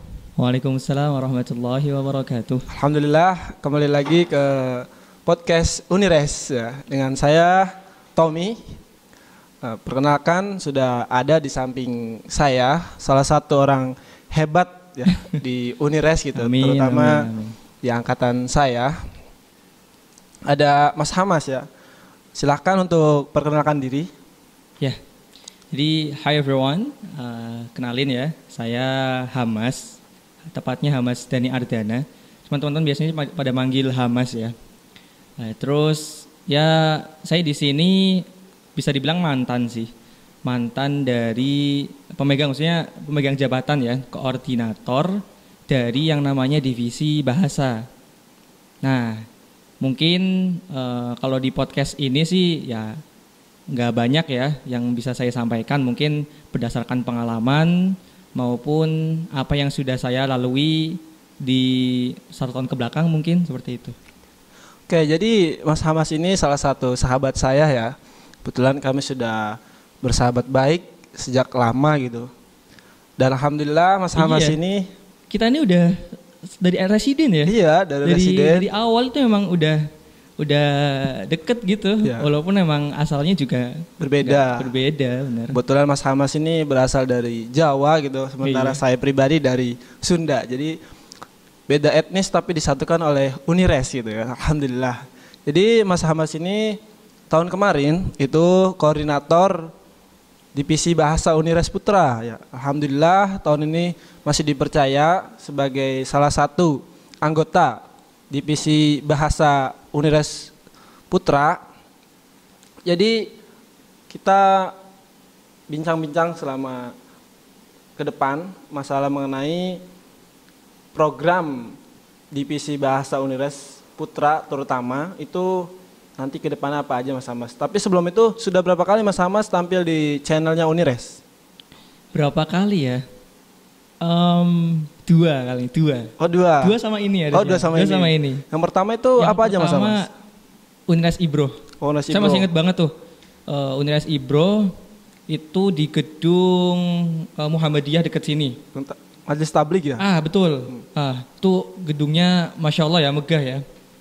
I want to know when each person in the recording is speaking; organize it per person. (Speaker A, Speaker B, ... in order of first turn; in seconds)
Speaker A: 0.4-2.7, 16.4-17.6, 25.7-30.0, 30.5-34.5, 35.4-39.9, 40.5-47.9, 48.8-49.2, 49.8-53.0, 53.7-64.0, 74.2-74.6, 75.3-77.5, 78.0-79.9, 80.4-85.6, 88.4-88.8, 132.1-133.1, 134.0-138.4, 139.2-140.1, 140.9-141.6, 142.1-142.9, 143.5-144.7, 145.3-148.6, 150.0-153.6
Speaker B: 2.7-8.7, 9.6-17.3, 17.8-19.1, 20.5-21.7, 22.4-24.1, 64.9-72.3, 73.2-74.9, 77.5-78.7, 82.0-82.3, 84.0-84.7, 85.5-90.8, 91.7-99.7, 100.5-110.5, 111.1-111.6, 112.9-113.3, 114.1-114.8, 115.7-116.9, 118.0-119.8, 121.0-121.8, 122.3-131.2, 136.2-136.8, 137.3-140.0, 141.8-142.5, 148.7-150.0